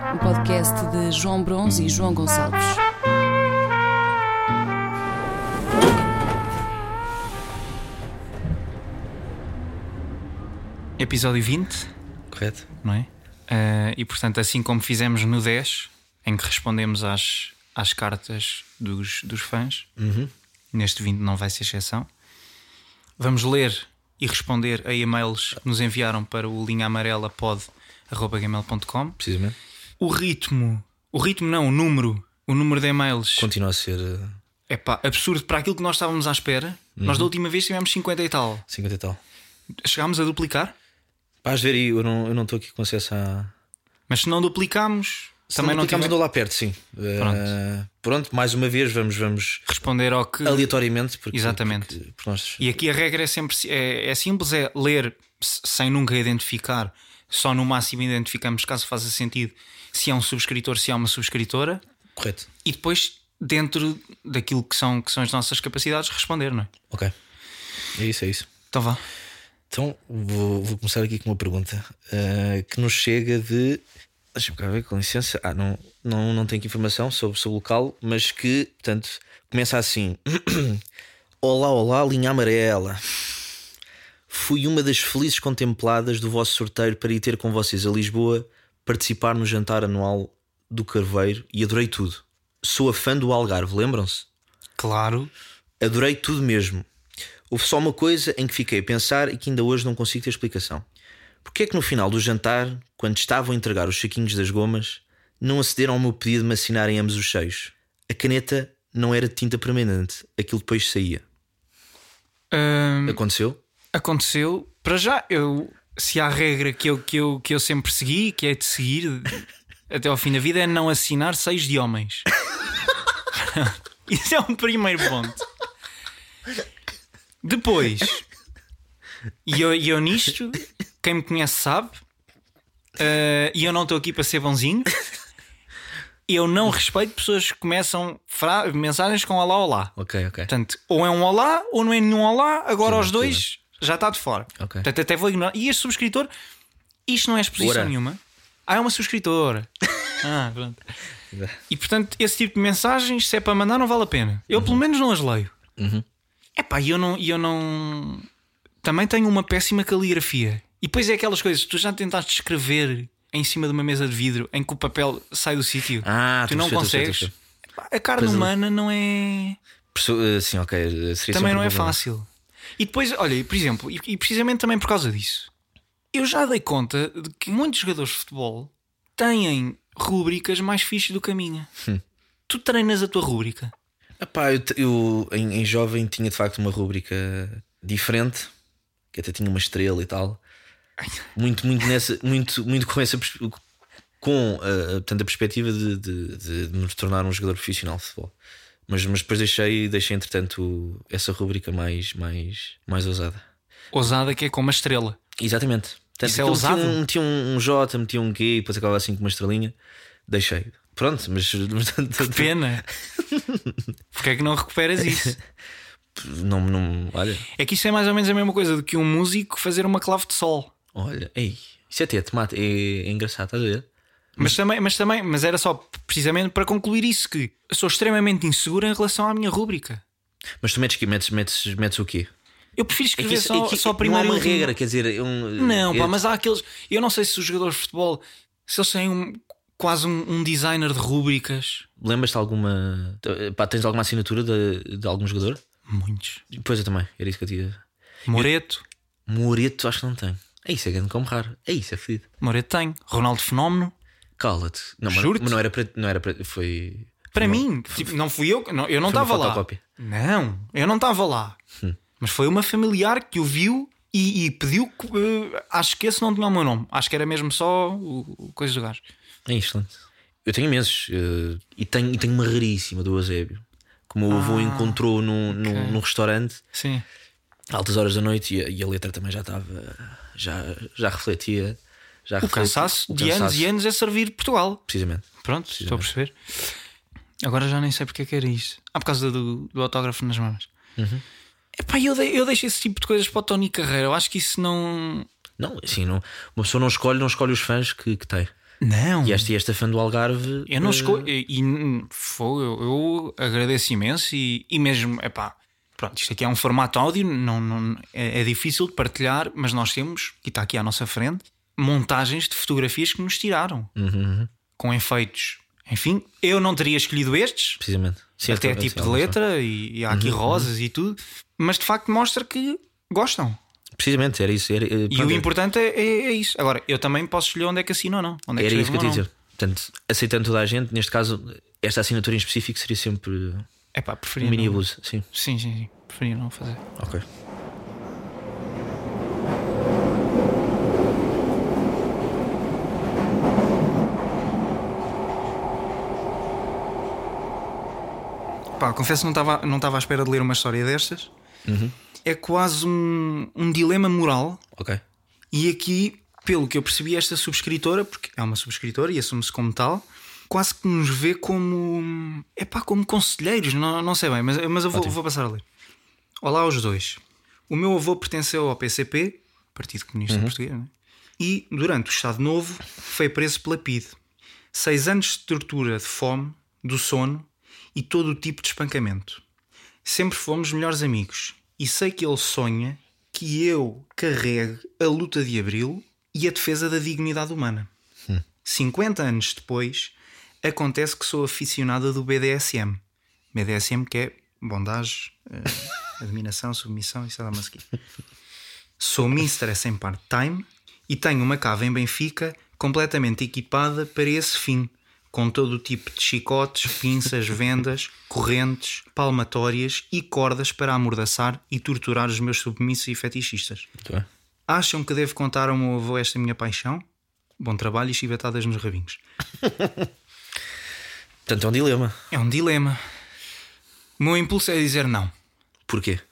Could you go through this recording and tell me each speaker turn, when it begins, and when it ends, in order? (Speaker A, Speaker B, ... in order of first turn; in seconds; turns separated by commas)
Speaker A: 0.2-2.7, Speaker B: 11.0-11.9, Speaker C: 12.3-12.7, Speaker B: 12.8-19.9, Speaker C: 20.0-20.3, Speaker B: 20.7-22.1, Speaker B: 23.2-29.2, Speaker C: 29.2-29.6, Speaker B: 30.0-33.5, Speaker C: 33.4-34.4, Speaker B: 34.7-38.6, Speaker C: 37.0-37.3, Speaker C: 38.7-39.2, Speaker B: 39.8-40.8, Speaker C: 41.4-43.5, Speaker B: 44.1-46.1, Speaker C: 45.5-49.7, Speaker B: 47.2-47.5, Speaker B: 49.7-50.8, Speaker C: 50.5-52.8, Speaker B: 51.3-52.0, Speaker B: 52.6-61.8, Speaker C: 62.2-62.5, Speaker B: 62.6-66.7, Speaker C: 68.0-68.5, Speaker B: 68.7-69.0, Speaker C: 69.7-73.8, Speaker C: 74.3-80.8, Speaker C: 81.4-83.0, Speaker C: 84.3-94.3, Speaker B: 94.8-95.3, Speaker C: 95.8-96.9, Speaker C: 97.5-100.8, Speaker C: 101.4-111.2, Speaker B: 112.5-113.2, Speaker C: 113.1-113.6, Speaker B: 113.9-122.3, Speaker B: 123.3-125.5, Speaker B: 127.4-128.2, Speaker B: 129.4-132.0, Speaker B: 133.0-134.9, Speaker B: 136.3-139.9, Speaker C: 140.0-140.5, Speaker B: 140.5-146.3, Speaker C: 142.8-143.4, Speaker C: 144.6-144.9, Speaker B: 147.1-150.8, Speaker C: 147.6-147.9, Speaker C: 151.3-151.6, Speaker B: 151.7-155.5, Speaker C: 154.5-154.8, Speaker C: 155.8-156.1, Speaker B: 156.6-158.3, Speaker B: 158.8-169.6, Speaker C: 166.0-167.3, Speaker C: 168.2-168.5, Speaker C: 169.9-172.0, Speaker B: 171.3-175.5, Speaker B: 176.1-181.7, Speaker B: 182.5-183.7, Speaker C: 184.2-188.5, Speaker C: 189.1-190.4, Speaker C: 191.3-193.6, Speaker C: 194.2-198.3, Speaker C: 198.9-203.4, Speaker B: 203.9-205.2, Speaker C: 205.4-209.8, Speaker B: 206.2-207.0, Speaker C: 210.3-212.6, Speaker B: 212.2-212.9, Speaker C: 213.1-213.8, Speaker B: 214.1-215.4, Speaker C: 215.1-215.3, Speaker C: 216.2-217.5, Speaker B: 217.6-220.7, Speaker C: 220.9-223.9, Speaker B: 224.4-230.0, Speaker C: 230.6-232.3, Speaker B: 232.8-234.7, Speaker C: 233.2-236.2, Speaker B: 235.6-241.9, Speaker C: 242.0-245.6, Speaker B: 245.9-246.4, Speaker C: 246.5-247.8, Speaker B: 248.3-248.8, Speaker C: 249.3-252.3, Speaker B: 252.4-253.9, Speaker C: 254.4-258.1, Speaker B: 255.1-255.6, Speaker B: 257.3-261.6, Speaker C: 259.1-259.8, Speaker B: 262.2-269.0, Speaker C: 269.5-276.6, Speaker B: 274.3-276.0, Speaker B: 276.7-277.1, Speaker C: 277.7-283.7, Speaker B: 282.4-284.8, Speaker C: 284.9-286.1, Speaker B: 285.4-286.4, Speaker B: 287.4-290.7, Speaker C: 291.0-291.2, Speaker B: 291.8-295.3, Speaker C: 295.6-298.5, Speaker B: 298.8-299.5, Speaker C: 299.2-301.3, Speaker B: 300.7-313.9, Speaker C: 314.0-314.5, Speaker B: 314.8-317.8, Speaker C: 317.8-319.4, Speaker B: 318.5-323.6, Speaker C: 320.1-320.7, Speaker C: 324.0-325.5, Speaker B: 325.1-329.2, Speaker C: 328.6-333.7, Speaker B: 333.9-336.8, Speaker C: 334.4-335.2, Speaker C: 337.0-337.2, Speaker B: 348.8-351.3, Speaker C: 351.7-351.9, Speaker B: 352.2-354.6, Speaker C: 354.8-355.0, Speaker B: 355.5-365.6, Speaker B: 366.4-374.2, Speaker C: 370.3-370.6, Speaker B: 374.7-379.4, Speaker B: 380.0-387.9, Speaker B: 388.6-393.0, Speaker B: 393.5-397.9, Speaker B: 399.0-413.9, Speaker C: 414.0-414.3, Speaker B: 414.7-417.0, Speaker B: 417.6-419.2, Speaker C: 419.6-420.0, Speaker C: 421.5-422.1, Speaker B: 422.3-423.0, Speaker B: 424.2-425.3, Speaker C: 425.9-426.2